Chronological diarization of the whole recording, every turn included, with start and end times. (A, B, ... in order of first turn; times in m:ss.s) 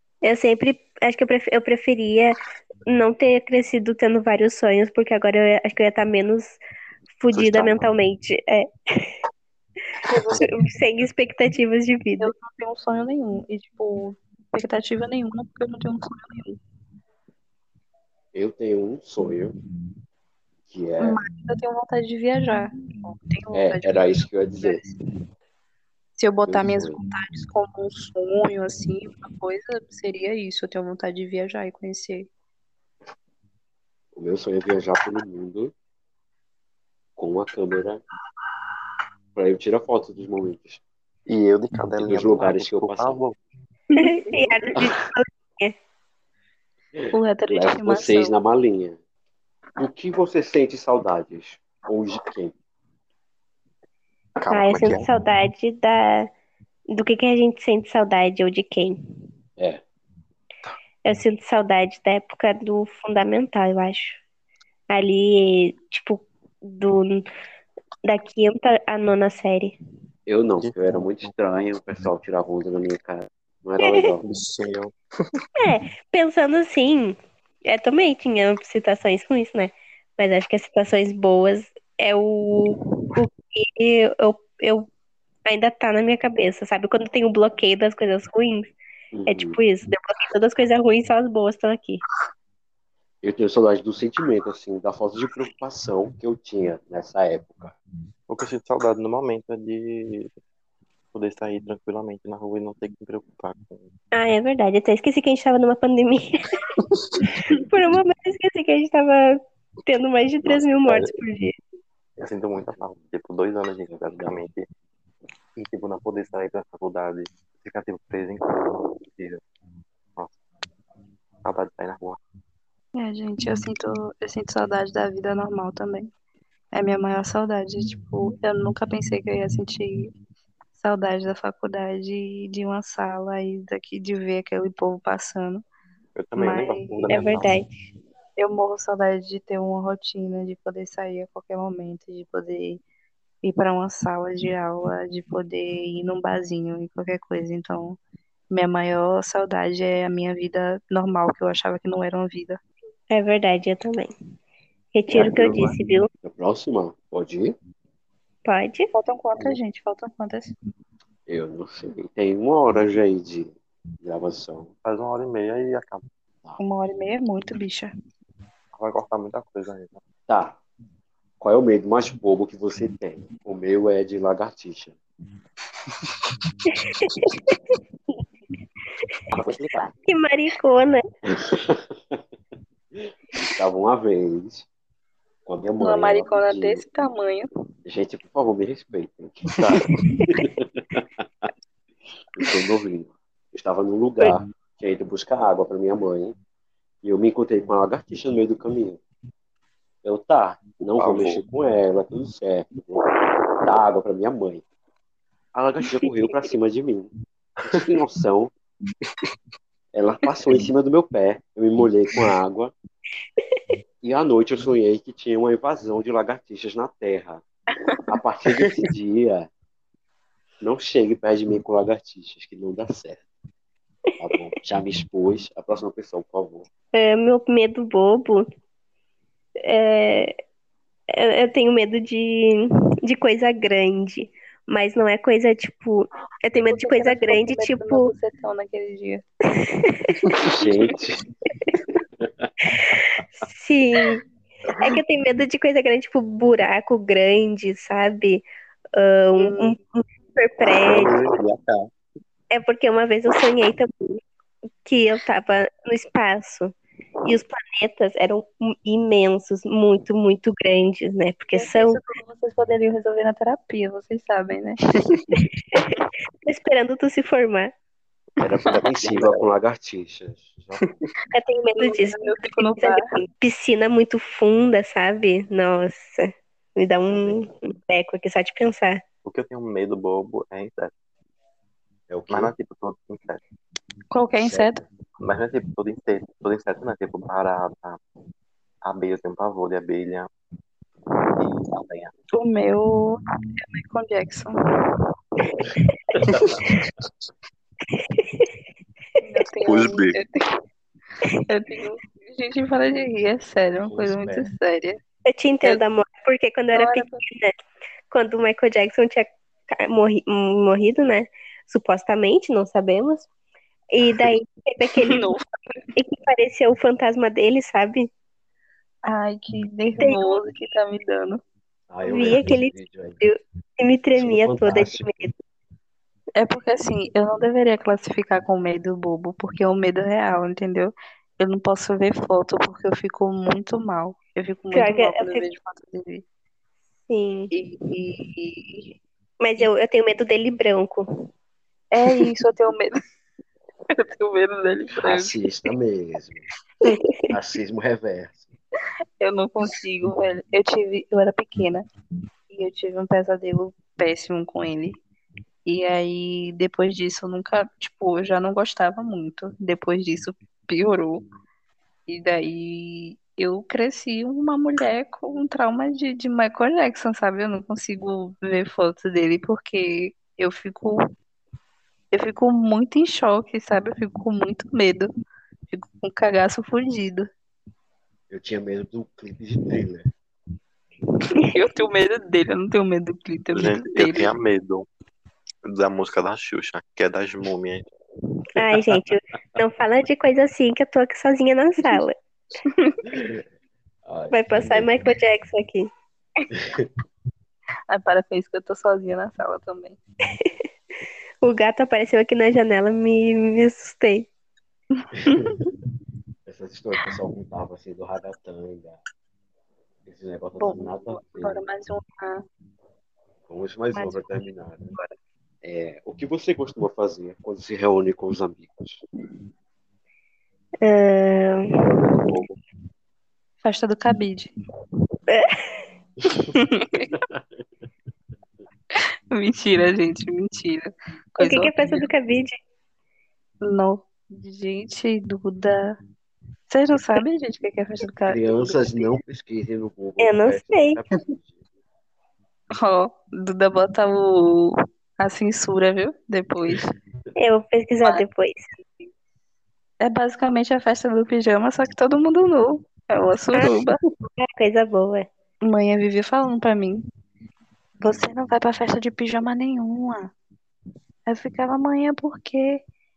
0:00.2-0:06.6 A
0:07.2-0:09.1 A
0:07.3-0:07.9 B
0:10.1-0:10.4 C
0:10.1-0:12.3 A
0:12.2-0:16.6 C
0:18.3-0:19.6 D
0:20.7-0:21.2 D
0:21.0-0:25.0 C
0:23.5-0:24.8 D
0:26.2-0:32.3 C
0:26.4-0:27.0 D
0:34.1-0:35.7 D
0:37.2-0:38.0 D
0:39.3-0:40.8 D
0:41.3-0:43.4 B
0:42.0-0:43.2 D
0:43.9-0:44.8 C
0:44.0-0:45.7 A
0:46.9-0:49.0 D
0:47.1-0:48.4 C
0:49.8-0:52.5 D
0:54.4-0:55.0 B
0:54.5-0:56.3 A
0:56.9-0:59.0 A
1:01.0-1:04.2 A
1:04.9-1:07.3 A
1:08.0-1:09.8 A
1:10.3-1:14.2 D
1:10.6-1:11.3 B
1:13.8-1:14.1 A
1:14.2-1:14.9 B
1:15.6-1:24.9 A
1:25.4-1:28.7 A
1:29.1-1:29.6 D
1:29.2-1:32.0 A
1:33.2-1:37.8 D
1:38.3-1:40.3 B
1:41.1-1:43.8 B
1:44.1-1:46.4 A
1:46.9-1:47.6 B
1:47.7-1:51.6 A
1:50.4-1:51.1 B
1:52.2-1:54.7 B
1:53.9-1:54.4 D
1:55.6-1:59.4 B
2:01.4-2:02.2 B
2:02.9-2:06.1 C
2:06.7-2:10.1 C
2:10.8-2:15.6 C
2:16.2-2:17.6 B
2:16.4-2:17.2 C
2:17.1-2:17.7 A
2:18.4-2:22.8 C
2:23.4-2:28.0 C
2:28.5-2:32.6 C
2:33.1-2:34.1 A
2:34.9-2:36.1 A
2:35.1-2:35.7 B
2:36.2-2:37.6 D
2:38.4-2:38.9 A
2:38.9-2:40.5 C
2:41.3-2:44.7 D
2:44.8-2:46.0 B
2:46.6-2:47.9 C
2:48.7-2:50.0 B
2:50.3-2:50.6 D
2:51.4-2:55.0 D
2:59.3-2:59.9 D
3:00.0-3:01.0 A
3:01.3-3:02.2 D
3:03.0-3:04.7 D
3:05.4-3:06.8 D
3:05.8-3:07.5 C
3:07.8-3:11.5 D
3:09.6-3:10.0 B
3:12.4-3:16.4 D
3:17.0-3:19.0 D
3:20.0-3:23.0 D
3:20.9-3:21.4 B
3:23.6-3:24.6 D
3:25.5-3:28.5 D
3:29.9-3:32.7 D
3:34.0-3:37.4 D
3:38.1-3:39.5 D
3:40.6-3:43.2 D
3:44.2-3:46.7 D
3:46.9-3:48.4 A
3:49.6-3:50.4 A
3:51.1-3:58.1 A
3:56.7-3:59.2 C
4:00.5-4:01.2 D
4:02.2-4:03.0 D
4:03.5-4:04.2 A
4:04.8-4:08.4 A
4:09.0-4:11.1 A
4:09.4-4:09.8 C
4:10.8-4:11.9 B
4:12.5-4:14.2 A
4:14.8-4:22.0 A
4:21.5-4:24.8 C
4:26.4-4:27.7 A
4:28.4-4:30.9 D
4:29.0-4:29.5 B
4:30.8-4:31.1 B
4:31.3-4:39.0 A
4:31.8-4:33.1 C
4:37.1-4:37.5 D
4:39.2-4:40.9 B
4:42.1-4:42.5 D
4:42.3-4:43.4 B
4:44.1-4:44.8 C
4:44.3-4:44.9 D
4:45.2-4:48.0 B
4:48.8-4:50.3 B
4:51.4-4:52.1 B
4:52.3-4:55.6 C
4:56.2-4:56.7 D
4:56.4-4:56.9 B
4:58.2-4:58.5 A
4:59.2-5:00.4 C
4:59.7-5:00.2 B
5:01.4-5:05.0 C
5:03.8-5:04.5 D
5:05.3-5:07.5 A
5:06.7-5:07.2 C
5:08.1-5:13.2 A
5:13.9-5:15.2 A
5:15.0-5:15.8 C
5:15.9-5:18.1 A
5:19.0-5:21.4 C
5:20.0-5:20.4 A
5:21.9-5:23.2 D
5:22.0-5:25.3 A
5:24.1-5:25.3 D
5:26.4-5:36.2 C
5:34.7-5:35.5 A
5:37.1-5:37.5 A
5:37.5-5:38.9 C
5:39.4-5:41.0 A
5:41.9-5:43.0 C
5:43.9-5:45.7 C
5:45.0-5:46.5 D
5:47.3-5:48.6 D
5:49.2-5:51.8 C
5:52.5-5:55.0 C
5:55.6-6:01.2 C
6:02.1-6:11.1 C
6:12.1-6:15.1 C
6:15.7-6:17.3 C
6:18.3-6:20.1 D
6:21.4-6:24.3 C
6:23.5-6:24.8 B
6:25.6-6:27.8 B
6:28.5-6:32.2 A
6:32.7-6:33.0 C
6:33.1-6:33.4 D
6:34.0-6:35.0 D
6:34.3-6:35.9 A
6:36.5-6:36.9 D
6:37.9-6:40.0 C
6:41.4-6:44.3 A
6:45.0-6:45.7 C
6:45.2-6:45.7 D
6:46.5-6:49.0 D
6:50.0-6:51.6 D
6:50.6-6:52.4 C
6:53.5-6:54.9 D
6:53.9-6:55.1 C
6:55.6-6:59.0 D
7:00.8-7:01.8 A
7:01.8-7:02.6 B
7:03.6-7:04.5 C
7:06.4-7:07.2 C
7:07.1-7:07.4 D
7:09.3-7:12.1 C
7:11.4-7:12.6 A
7:13.6-7:16.0 C
7:16.7-7:19.2 C
7:18.2-7:21.6 D
7:20.2-7:21.0 A
7:22.8-7:26.9 C
7:27.4-7:28.7 A
7:30.0-7:34.0 C
7:34.2-7:35.3 A
7:35.6-7:37.0 C
7:38.0-7:40.3 C
7:41.3-7:42.8 C